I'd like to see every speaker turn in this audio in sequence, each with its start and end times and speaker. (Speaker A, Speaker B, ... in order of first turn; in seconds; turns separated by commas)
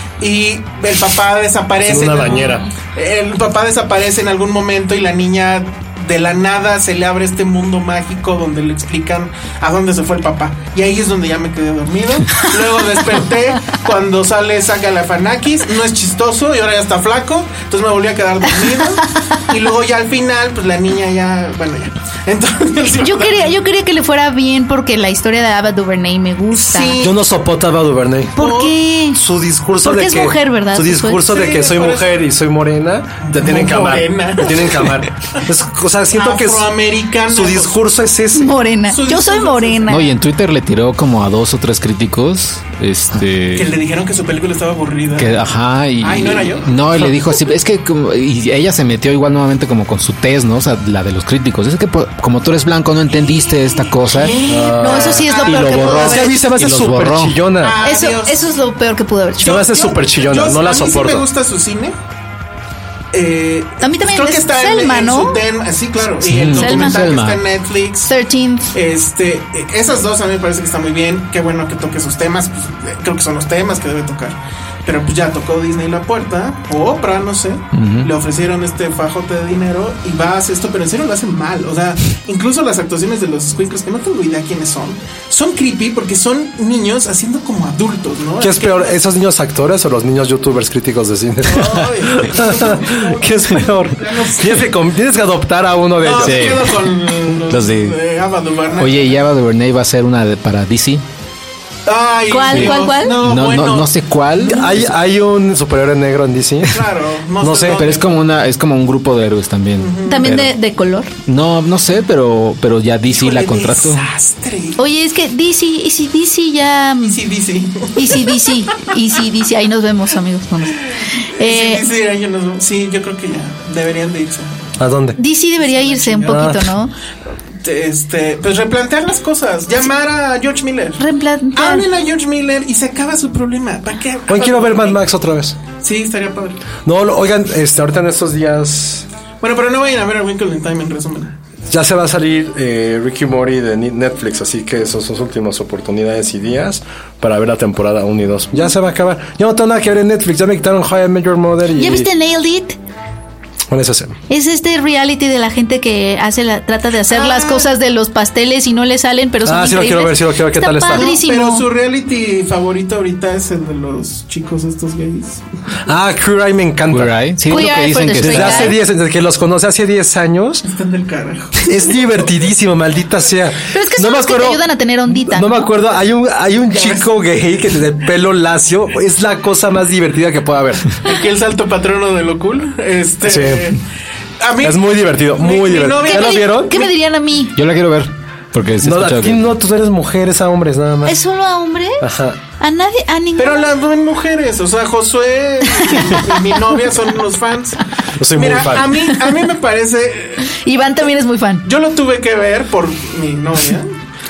Speaker A: 0.2-23.5, Speaker B: 1.8-2.6, Speaker C: 23.0-27.0, Speaker A: 26.5-27.1, Speaker B: 27.0-28.4, Speaker C: 28.4-29.2, Speaker A: 28.4-28.7, Speaker B: 29.1-36.7, Speaker C: 29.8-31.3, Speaker A: 31.2-32.1, Speaker A: 33.2-35.4, Speaker A: 36.1-37.8, Speaker B: 37.3-38.6, Speaker C: 38.3-40.1, Speaker A: 38.9-39.9, Speaker D: 39.9-43.8, Speaker A: 43.5-45.4, Speaker D: 45.1-54.4, Speaker A: 46.0-47.3, Speaker A: 53.9-56.3, Speaker B: 54.5-57.8, Speaker C: 54.7-56.4, Speaker D: 55.5-57.4, Speaker A: 57.6-58.5, Speaker C: 57.8-59.6, Speaker B: 59.4-61.2, Speaker A: 59.4-61.9, Speaker A: 63.1-68.1, Speaker C: 63.8-65.4, Speaker D: 66.2-67.4, Speaker C: 66.5-67.1, Speaker C: 68.1-68.7, Speaker A: 68.7-89.0, Speaker D: 77.7-78.1, Speaker B: 88.4-96.6, Speaker A: 91.4-94.7, Speaker A: 96.0-99.2, Speaker D: 96.2-98.0, Speaker D: 98.8-101.0, Speaker A: 101.9-104.7, Speaker C: 102.3-103.2, Speaker D: 102.5-104.9, Speaker B: 104.5-106.8, Speaker A: 106.7-108.1, Speaker B: 107.4-107.9, Speaker D: 107.7-110.5, Speaker A: 109.8-110.2, Speaker C: 110.0-111.1, Speaker D: 111.2-114.1, Speaker A: 113.1-114.8, Speaker C: 114.8-117.2, Speaker A: 117.0-118.4, Speaker C: 117.9-121.8, Speaker A: 120.9-124.5, Speaker B: 124.8-125.2, Speaker C: 125.2-126.9, Speaker A: 125.6-126.5, Speaker B: 126.2-126.7, Speaker A: 127.6-131.0, Speaker C: 131.0-131.9, Speaker A: 131.5-135.0, Speaker B: 134.3-135.6, Speaker A: 135.8-136.6, Speaker B: 136.8-139.0, Speaker A: 139.4-141.4, Speaker B: 141.7-152.1, Speaker C: 151.7-152.8, Speaker B: 153.7-154.2, Speaker C: 154.3-161.7, Speaker A: 157.1-157.7, Speaker B: 159.4-161.1, Speaker A: 160.9-165.4, Speaker B: 165.8-167.2, Speaker D: 166.9-168.7, Speaker C: 167.5-168.8, Speaker B: 168.1-170.7, Speaker A: 170.7-171.7, Speaker B: 171.6-180.9, Speaker C: 173.7-175.7, Speaker A: 176.7-177.1, Speaker A: 181.0-183.8, Speaker B: 183.2-183.7, Speaker A: 184.4-184.8, Speaker B: 184.6-186.9, Speaker A: 185.4-186.8, Speaker C: 186.0-187.6, Speaker D: 187.5-189.4, Speaker B: 188.8-191.2, Speaker C: 191.0-192.1, Speaker B: 192.0-192.4, Speaker C: 192.6-193.7, Speaker A: 193.4-197.8, Speaker B: 198.2-199.1, Speaker A: 198.3-200.5, Speaker C: 200.6-201.6, Speaker A: 201.6-204.0